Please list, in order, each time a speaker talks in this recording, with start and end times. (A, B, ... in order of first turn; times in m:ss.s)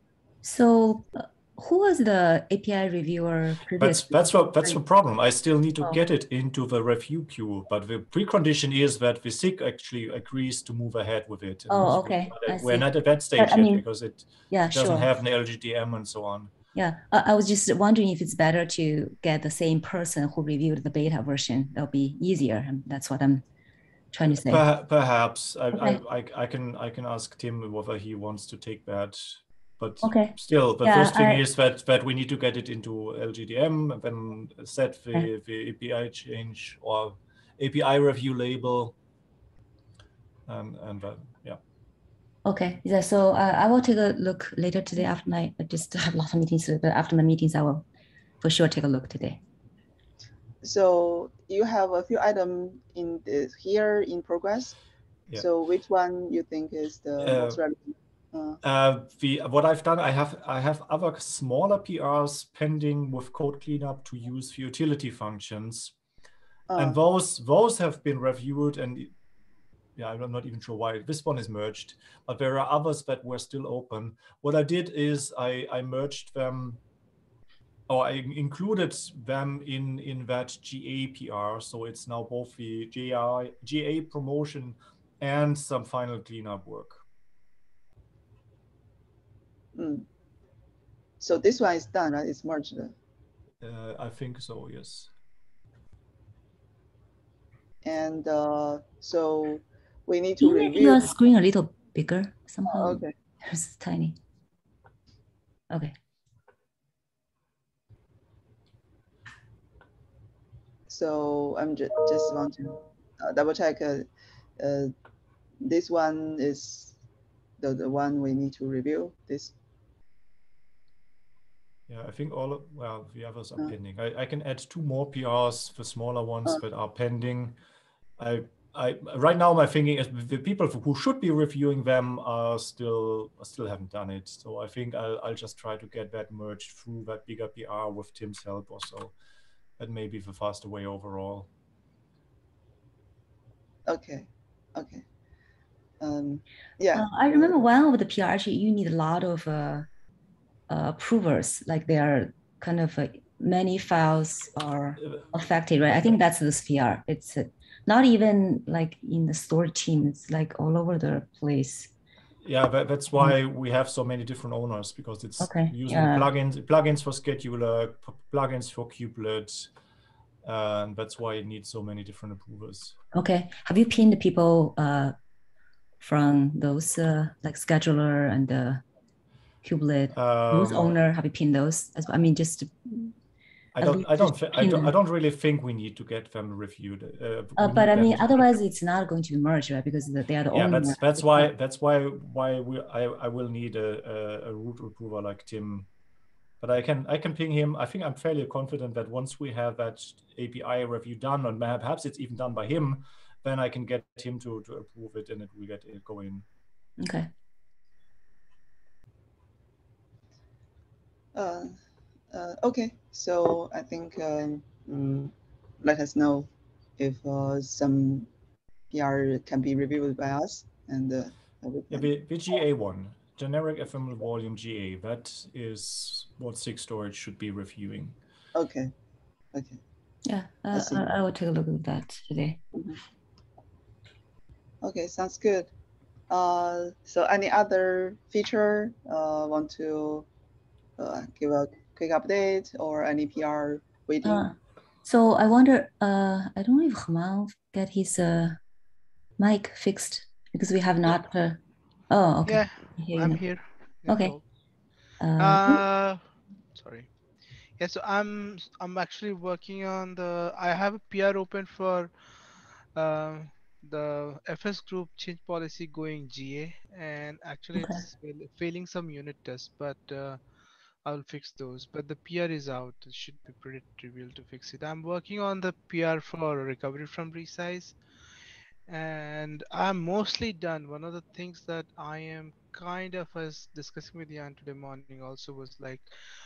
0:00.4-0:04.8 A
0:03.8-0:16.5 B
0:11.7-0:13.8 A
0:14.5-0:15.1 A
0:16.7-0:23.4 A
0:24.1-0:24.6 A
0:24.3-0:39.0 B
0:25.7-0:26.0 A
0:30.0-0:31.4 A
0:40.5-0:41.6 B
0:42.4-0:47.8 A
0:48.4-0:49.4 A
0:50.6-0:54.7 C
0:55.3-0:58.6 C
0:57.2-0:57.6 B
0:58.6-1:05.9 B
1:06.7-1:07.0 C
1:06.8-1:09.1 B
1:10.0-1:16.8 B
1:17.9-1:27.0 B
1:29.7-1:30.0 C
1:31.2-1:32.9 C
1:33.6-1:35.1 B
1:37.8-1:41.1 C
1:40.4-1:44.2 A
1:42.6-1:43.1 C
1:50.9-1:54.1 C
1:54.6-1:54.9 C
1:55.6-1:56.9 C
1:57.6-1:59.5 C
2:01.9-2:07.6 B
2:08.2-2:19.1 B
2:19.8-2:21.5 B
2:23.9-2:25.0 C
2:26.0-2:27.7 C
2:26.9-2:29.9 A
2:30.7-2:41.9 A
2:42.4-2:49.7 B
2:45.4-2:46.3 A
2:50.4-2:53.0 B
2:53.1-2:55.1 A
2:56.0-2:58.8 A
2:59.6-3:03.1 A
3:00.1-3:00.9 B
3:03.7-3:08.6 B
3:03.8-3:04.9 A
3:07.6-3:11.5 A
3:10.5-3:15.9 B
3:16.6-3:26.4 B
3:27.0-3:27.3 A
3:31.3-3:31.7 C
3:32.3-3:38.3 C
3:38.9-3:42.1 C
3:41.9-3:48.2 B
3:48.5-3:48.9 C
3:49.5-3:49.8 C
3:50.2-3:52.6 A
3:50.7-3:51.0 C
3:54.8-3:55.7 C
3:56.3-4:00.3 C
4:01.0-4:04.5 C
4:04.2-4:04.5 A
4:05.0-4:08.6 A
4:09.4-4:14.4 A
4:12.4-4:14.4 D
4:15.2-4:15.8 A
4:15.4-4:16.2 D
4:16.7-4:17.1 D
4:17.8-4:22.1 D
4:22.9-4:30.4 D
4:27.7-4:28.0 A
4:31.0-4:38.0 D
4:38.9-4:46.0 D